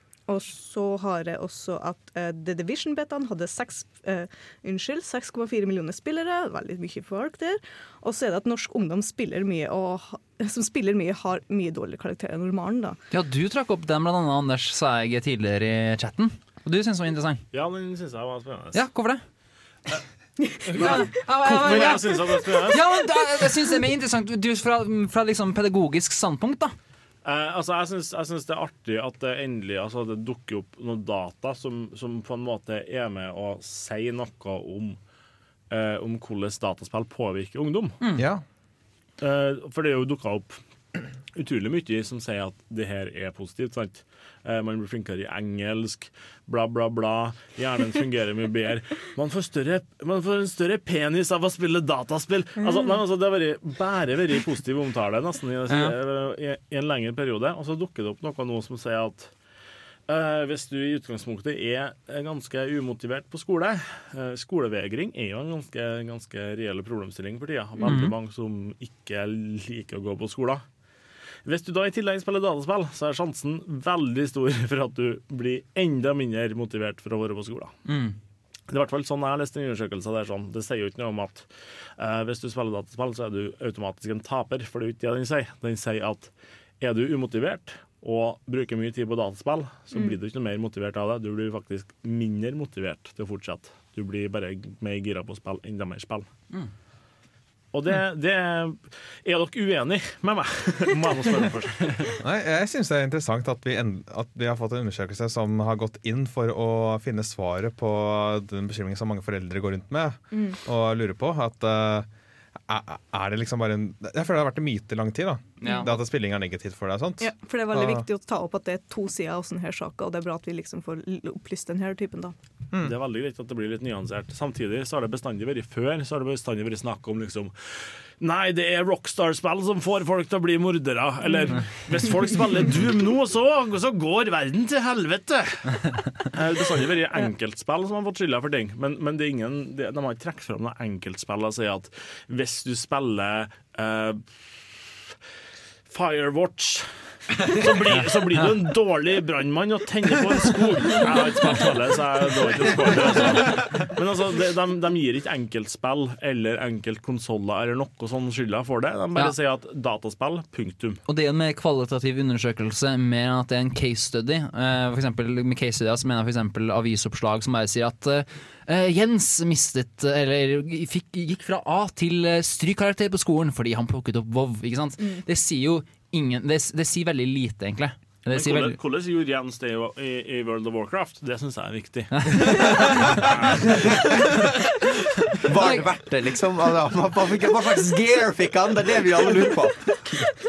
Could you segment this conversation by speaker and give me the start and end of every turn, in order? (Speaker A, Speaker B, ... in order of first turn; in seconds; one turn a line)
Speaker A: 0.3-13.0
Speaker B: 13.1-17.4
Speaker C: 17.5-18.8
Speaker B: 18.7-19.2
Speaker C: 20.7-22.8
Speaker B: 20.7-26.7
Speaker C: 27.2-35.0
Speaker C: 35.7-38.0
Speaker B: 38.0-38.3
Speaker D: 38.1-38.4
Speaker C: 39.2-40.6
Speaker C: 41.4-59.3
Speaker A: 52.6-53.0
Speaker B: 55.7-56.0
Speaker C: 60.1-70.6
Speaker B: 67.8-68.2
Speaker C: 71.5-77.8
Speaker B: 77.9-78.2
Speaker C: 78.7-81.5
Speaker C: 82.0-86.3
Speaker C: 86.8-96.3
Speaker C: 97.7-102.2
Speaker D: 102.2-112.1
Speaker A: 110.3-110.6
Speaker D: 112.7-118.0
Speaker B: 115.6-115.9
Speaker A: 117.2-122.3
Speaker C: 122.8-144.2
Speaker A: 131.2-131.6
Speaker C: 145.9-161.0
Speaker B: 161.1-178.8
Speaker C: 178.3-183.9
Speaker B: 182.2-183.0
Speaker E: 185.4-189.8
Speaker B: 185.6-185.9